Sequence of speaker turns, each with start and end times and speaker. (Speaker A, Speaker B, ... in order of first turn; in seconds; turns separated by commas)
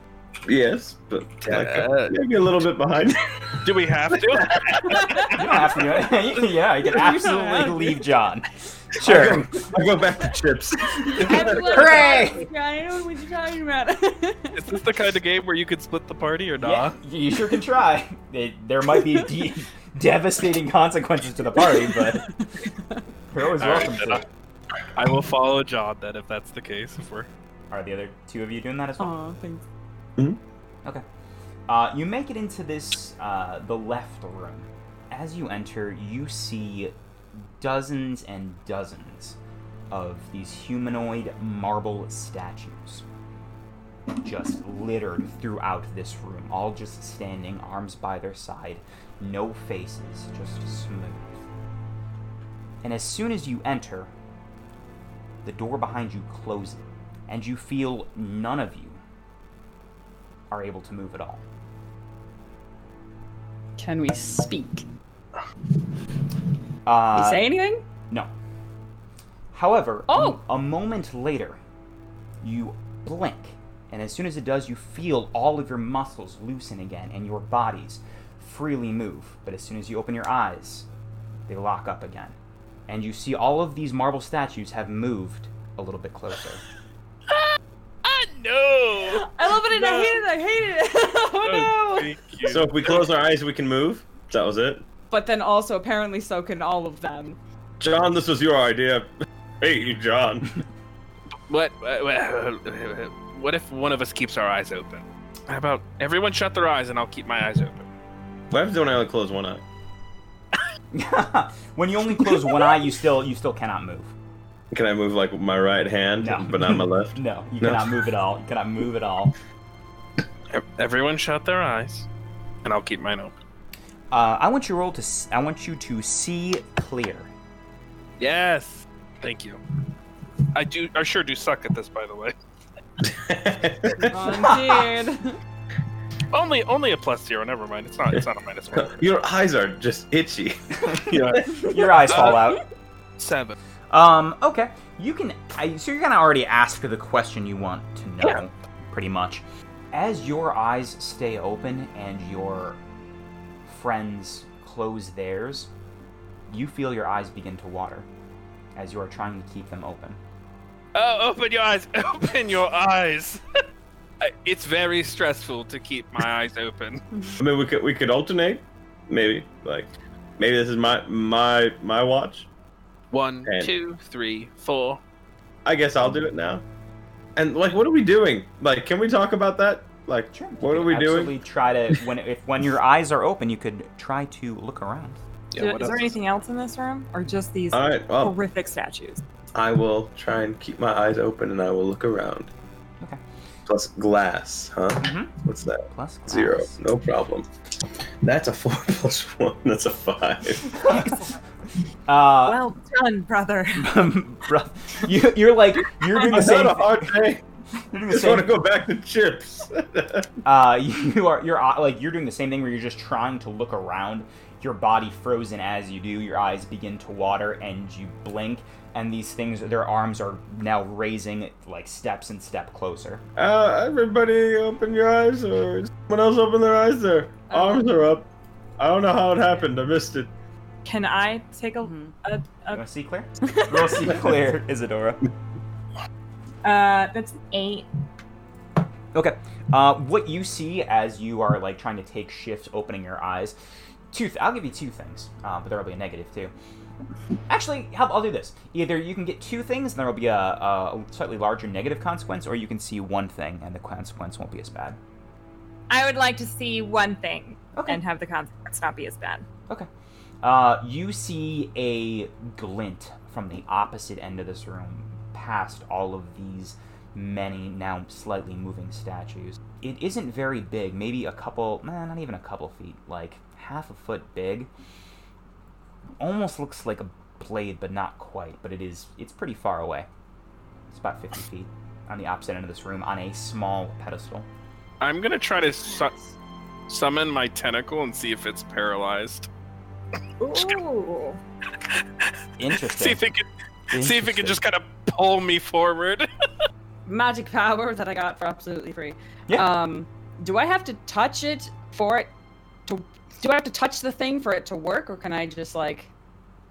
Speaker A: 0.5-5.2, Speaker B: 1.4-2.2, Speaker B: 3.6-5.2, Speaker C: 4.9-5.5, Speaker D: 5.3-9.6, Speaker C: 6.9-8.0, Speaker A: 9.0-12.0, Speaker C: 11.0-14.8, Speaker D: 11.1-12.5, Speaker B: 14.6-16.9, Speaker D: 16.6-22.3, Speaker C: 21.6-23.0, Speaker D: 23.3-24.2, Speaker B: 23.6-24.2, Speaker B: 24.9-27.3, Speaker D: 27.7-29.2, Speaker C: 29.0-29.6, Speaker D: 31.7-36.9, Speaker D: 37.6-39.4, Speaker D: 39.9-43.0, Speaker D: 44.2-51.4, Speaker D: 52.8-54.1, Speaker D: 55.4-59.0, Speaker D: 60.5-61.4, Speaker C: 63.8-64.8, Speaker D: 66.8-67.4, Speaker C: 67.1-67.8, Speaker D: 69.5-71.6, Speaker C: 70.1-70.4, Speaker D: 72.4-80.9, Speaker D: 81.5-82.3, Speaker D: 82.9-86.6, Speaker B: 87.3-90.2, Speaker C: 89.0-92.1, Speaker B: 91.4-93.0, Speaker A: 92.4-94.8, Speaker C: 95.1-97.4, Speaker A: 97.8-100.6, Speaker B: 101.5-107.8, Speaker A: 108.5-109.6, Speaker D: 110.9-114.1, Speaker A: 114.7-118.0, Speaker D: 116.2-119.3, Speaker B: 120.5-122.1, Speaker B: 122.6-123.3, Speaker D: 124.1-127.3, Speaker B: 128.2-129.6, Speaker B: 130.5-132.3, Speaker A: 133.0-134.4, Speaker C: 133.9-135.3, Speaker B: 136.3-139.0, Speaker A: 138.7-141.4, Speaker D: 140.9-142.6, Speaker B: 141.1-142.4, Speaker C: 141.4-142.6, Speaker B: 143.2-143.6, Speaker D: 143.9-152.8, Speaker D: 153.7-155.7, Speaker D: 156.5-158.1, Speaker D: 158.7-160.2, Speaker B: 160.9-163.4, Speaker B: 164.2-167.0, Speaker A: 167.4-172.5, Speaker B: 173.1-175.0, Speaker A: 173.4-173.7, Speaker A: 175.6-176.6, Speaker A: 177.3-181.3, Speaker D: 180.3-185.2, Speaker B: 185.5-186.2, Speaker E: 185.6-189.2, Speaker A: 187.7-188.3, Speaker A: 189.5-192.5, Speaker A: 193.7-197.5, Speaker D: 195.0-195.3, Speaker D: 195.8-196.8, Speaker A: 198.2-200.7, Speaker D: 200.6-201.3, Speaker D: 202.1-202.6, Speaker E: 202.4-203.9, Speaker D: 203.8-207.2, Speaker A: 206.0-207.4, Speaker D: 207.8-208.5, Speaker A: 208.1-210.3, Speaker D: 210.4-223.2, Speaker A: 223.4-228.3, Speaker C: 227.5-227.9, Speaker A: 228.8-230.3, Speaker E: 230.8-232.8, Speaker C: 231.8-232.1, Speaker D: 232.7-235.2, Speaker C: 233.5-234.1, Speaker E: 236.6-237.9, Speaker D: 239.1-243.6, Speaker D: 244.1-246.5, Speaker D: 247.5-255.0, Speaker E: 255.9-259.4, Speaker D: 257.7-258.0, Speaker D: 260.4-274.7, Speaker D: 276.2-280.1, Speaker D: 280.9-284.5, Speaker B: 285.0-286.1, Speaker E: 285.9-286.2, Speaker B: 286.9-289.5, Speaker E: 290.4-291.4, Speaker D: 292.6-293.2, Speaker B: 292.9-296.3, Speaker D: 293.9-294.6, Speaker C: 297.1-302.3, Speaker C: 302.9-306.1